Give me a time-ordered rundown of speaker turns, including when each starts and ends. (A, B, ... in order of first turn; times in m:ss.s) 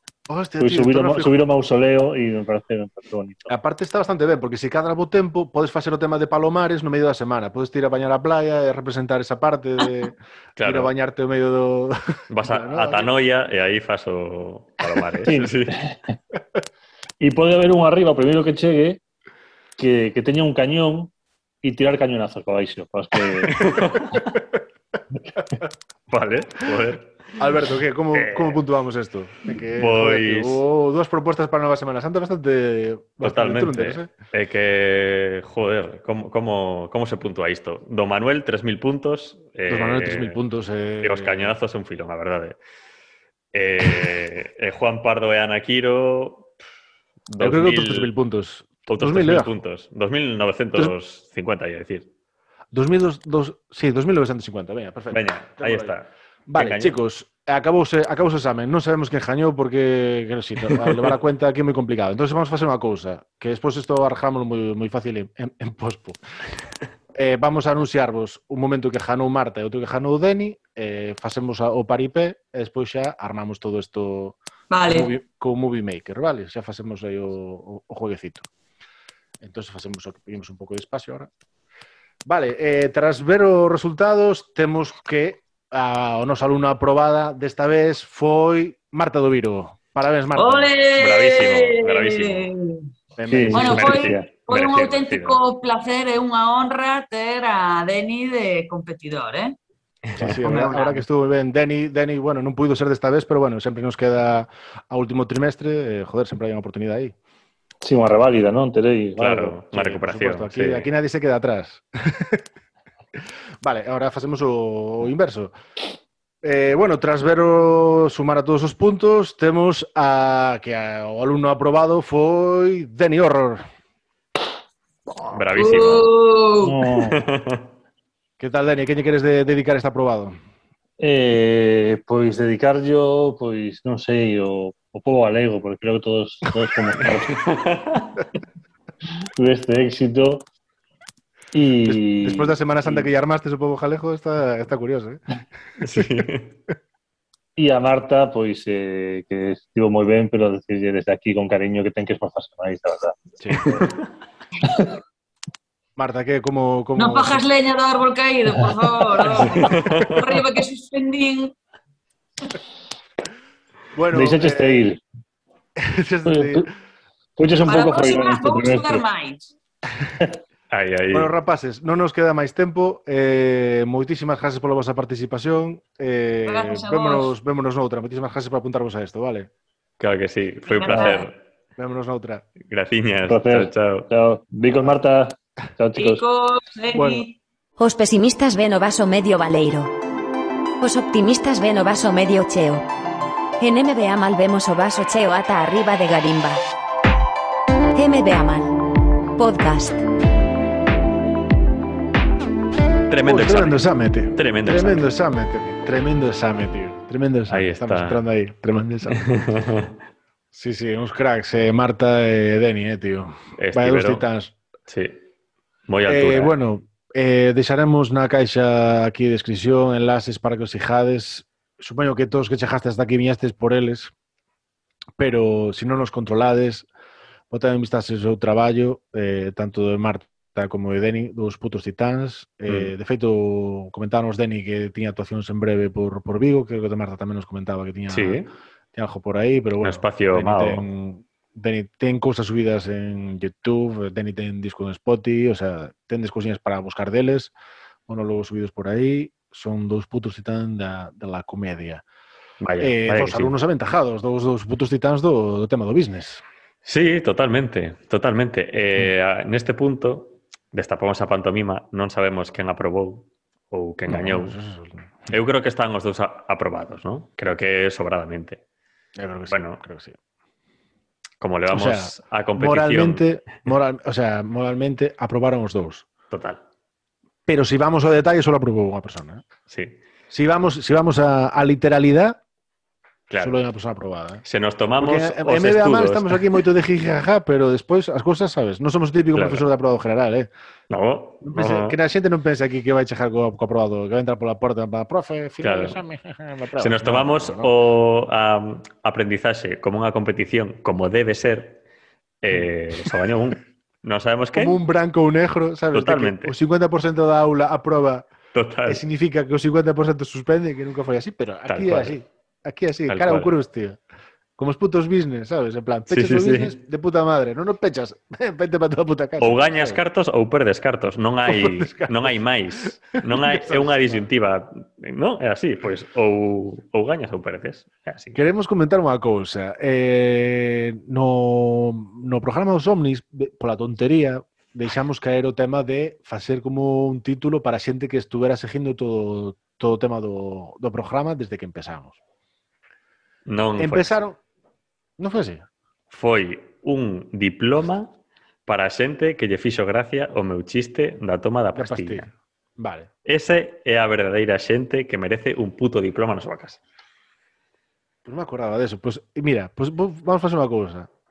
0:00.3-0:01.4 A
0:00.6-0:03.5 B
0:03.5-0:13.1 A
0:10.6-0:10.9 C
0:12.3-0:15.8 C
0:15.3-0:16.2 B
0:17.2-0:19.0 B
0:19.8-0:21.1 B
0:21.6-0:23.6 B
0:23.5-0:24.3 C
0:26.1-0:27.2 C
0:27.4-0:34.1 A
0:28.1-0:28.6 C
0:29.8-0:30.6 C
0:33.2-0:40.4 C
0:39.7-0:41.5 A
0:41.0-0:42.6 C
0:43.5-0:46.5 C
0:47.3-0:48.1 C
0:47.4-0:49.5 A
0:48.9-0:52.1 C
0:52.7-0:55.9 A
0:55.1-0:57.0 C
0:56.5-1:06.2 A
1:07.2-1:18.5 A
1:14.7-1:15.1 D
1:19.4-1:21.3 A
1:22.3-1:30.7 A
1:30.4-1:32.8 D
1:31.0-1:32.5 C
1:33.2-1:34.0 A
1:33.3-1:34.3 B
1:33.5-1:39.6 D
1:33.6-1:35.4 C
1:40.2-1:47.1 A
1:40.4-1:41.0 D
1:47.8-1:49.6 B
1:49.2-1:50.9 C
1:49.7-1:52.4 A
1:53.6-1:55.5 A
1:56.4-2:03.6 A
2:05.3-2:06.1 C
2:05.5-2:06.8 D
2:06.6-2:07.2 B
2:07.1-2:07.7 C
2:08.4-2:10.4 A
2:11.0-2:17.5 B
2:17.0-2:18.1 C
2:19.4-2:20.5 B
2:21.5-2:23.1 B
2:21.8-2:25.2 A
2:25.8-2:26.6 C
2:25.9-2:26.3 A
2:27.6-2:33.8 B
2:33.4-2:33.9 A
2:36.0-2:37.4 A
2:37.0-2:41.5 D
2:39.2-2:39.7 B
2:39.6-2:40.2 C
2:43.9-2:44.8 A
2:44.1-2:45.0 B
2:45.8-2:46.7 A
2:46.3-2:46.7 B
2:47.4-2:49.0 B
2:47.6-2:49.6 D
2:50.7-2:51.3 C
2:51.1-2:59.5 A
2:56.5-2:57.3 D
3:00.0-3:01.4 C
3:00.7-3:01.3 D
3:00.9-3:01.2 B
3:01.8-3:02.5 A
3:02.6-3:04.1 C
3:03.3-3:06.2 B
3:06.0-3:07.4 D
3:06.9-3:07.3 A
3:07.8-3:09.9 E
3:10.8-3:12.9 E
3:13.6-3:16.6 E
3:18.0-3:18.8 E
3:19.4-3:20.0 E
3:23.1-3:25.1 C
3:23.2-3:29.2 A
3:27.5-3:28.2 C
3:29.1-3:29.9 C
3:30.5-3:34.6 A
3:33.6-3:34.2 C
3:34.9-3:35.2 C
3:35.9-3:36.5 C
3:36.1-3:44.1 A
3:45.2-3:46.9 A
3:47.5-3:58.4 A
3:52.7-3:52.9 C
3:58.1-3:58.5 C
3:58.9-4:07.5 A
3:59.8-4:00.8 C
4:08.1-4:12.0 A
4:12.6-4:13.5 C
4:12.8-4:16.4 A
4:16.8-4:24.6 C
4:24.1-4:25.3 A
4:25.3-4:28.6 C
4:29.2-4:30.2 A
4:29.5-4:29.8 C
4:31.4-4:33.3 C
4:31.7-4:36.1 A
4:36.3-4:36.6 C
4:37.5-4:39.4 A
4:39.7-4:40.0 C
4:40.3-4:42.4 A
4:43.3-4:43.7 C
4:43.4-4:44.4 A
4:44.4-4:46.4 C
4:45.0-4:50.5 A
4:49.3-4:49.7 C
4:50.9-4:52.0 C
4:51.4-4:57.7 A
4:55.6-4:56.0 C
4:56.8-5:01.8 C
5:02.4-5:04.8 C
5:04.5-5:08.3 A
5:05.9-5:06.6 C
5:08.5-5:09.0 C
5:08.9-5:14.0 A
5:11.7-5:12.2 C
5:13.1-5:13.5 C
5:14.6-5:20.0 A
5:16.1-5:16.7 C
5:19.4-5:28.4 C
5:21.5-5:24.2 A
5:28.4-5:42.2 A
5:43.5-5:44.1 C
5:43.8-5:44.4 A
5:45.2-5:45.7 A
5:46.1-5:48.1 C
5:48.7-5:52.3 C
5:51.8-5:53.1 A
5:53.3-5:56.8 C
5:58.2-6:01.1 A